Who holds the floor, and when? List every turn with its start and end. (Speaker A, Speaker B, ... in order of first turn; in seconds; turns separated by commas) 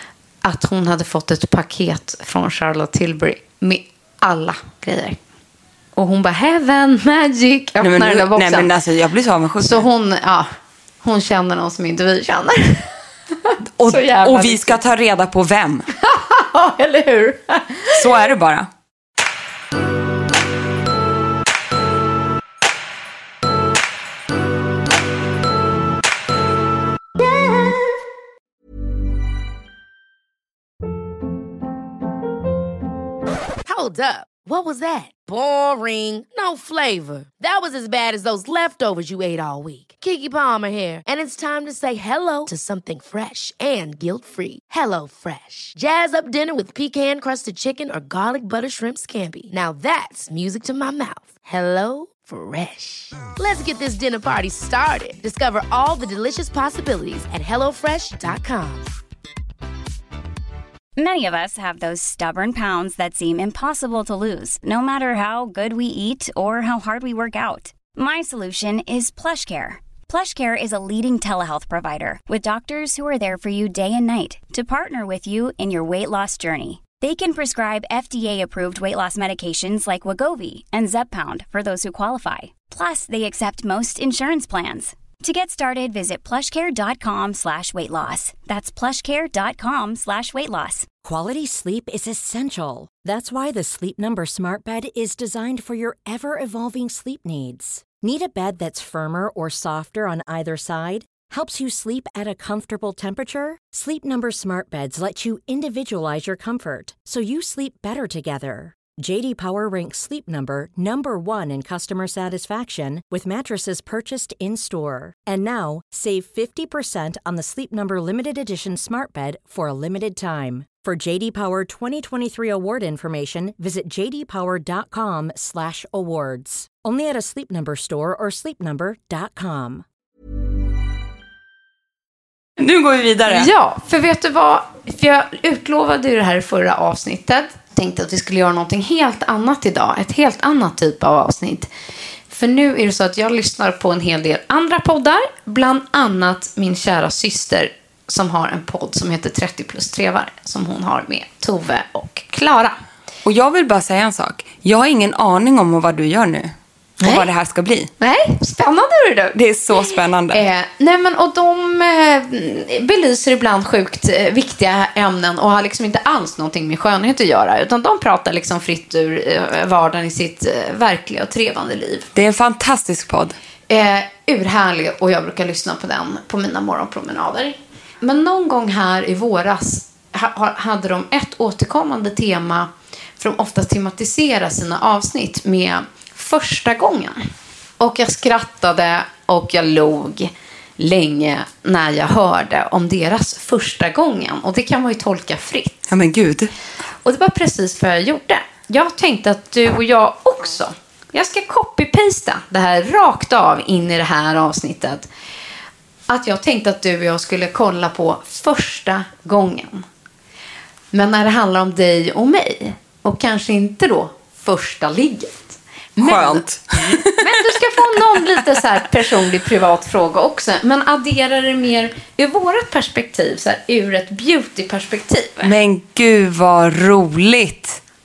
Speaker A: 0.4-5.2, Speaker A: 6.0-8.7, Speaker B: 7.8-9.9, Speaker A: 9.6-10.5, Speaker A: 11.0-12.9, Speaker A: 13.4-14.8, Speaker B: 13.8-15.9, Speaker A: 16.0-18.0, Speaker B: 17.9-18.7, Speaker C: 33.7-58.9, Speaker D: 61.0-90.9, Speaker E: 91.0-129.8, Speaker B: 132.6-133.5, Speaker A: 133.3-141.7, Speaker A: 142.3-152.8, Speaker B: 153.2-157.9, Speaker A: 157.0-157.3, Speaker A: 158.0-172.1, Speaker B: 159.3-160.5, Speaker B: 172.1-173.4, Speaker A: 173.7-187.2, Speaker A: 187.8-195.8, Speaker B: 195.9-196.5, Speaker A: 197.0-205.1, Speaker A: 206.1-209.9, Speaker A: 210.9-225.5, Speaker B: 216.0-218.4, Speaker B: 225.4-227.8